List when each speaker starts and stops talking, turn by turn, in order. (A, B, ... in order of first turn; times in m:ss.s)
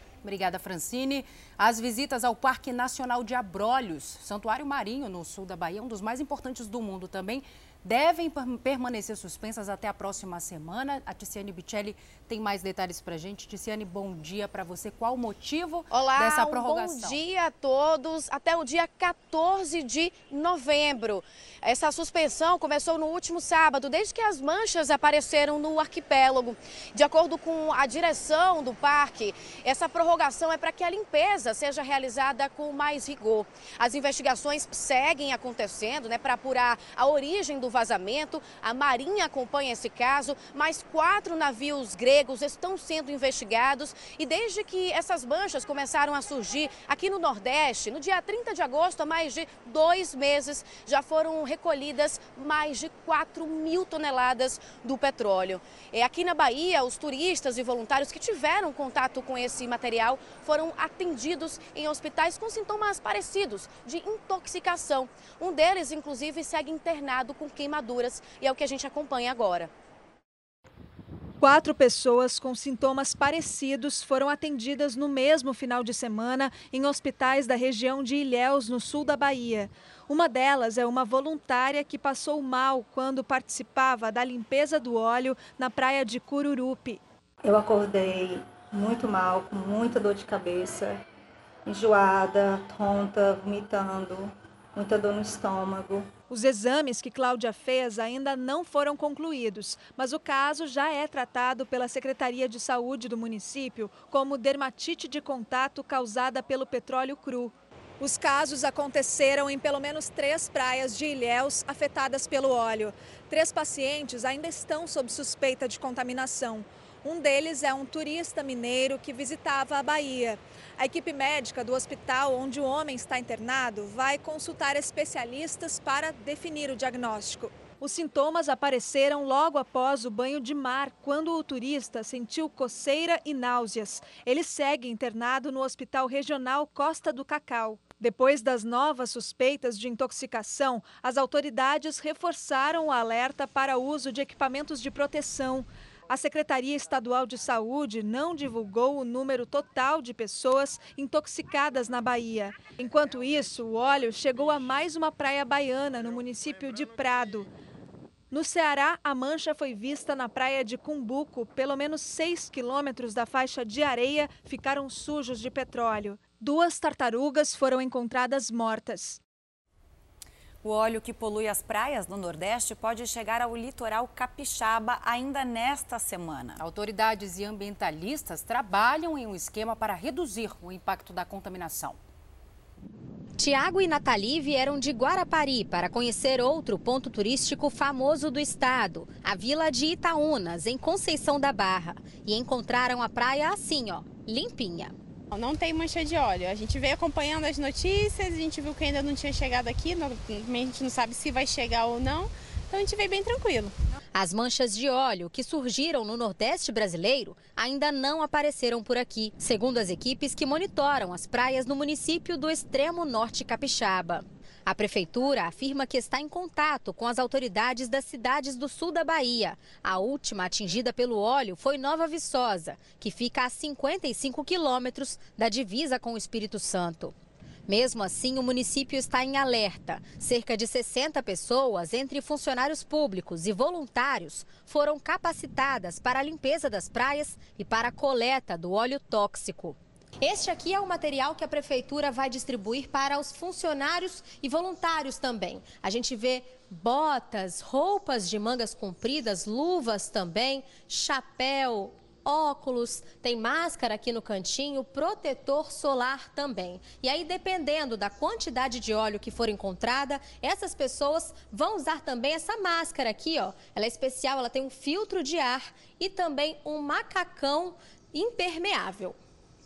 0:00.2-0:17.2 A
0:15.9-1:09.7 B
1:11.4-1:27.0 C
1:27.4-1:31.0 D
1:31.6-1:36.0 D
1:36.3-2:37.5 C
2:38.3-2:49.2 C
2:50.6-2:56.6 E
2:56.6-3:02.0 A
3:03.4-3:14.9 F
3:15.3-3:23.7 G
3:24.1-3:47.1 F
3:47.7-4:29.1 F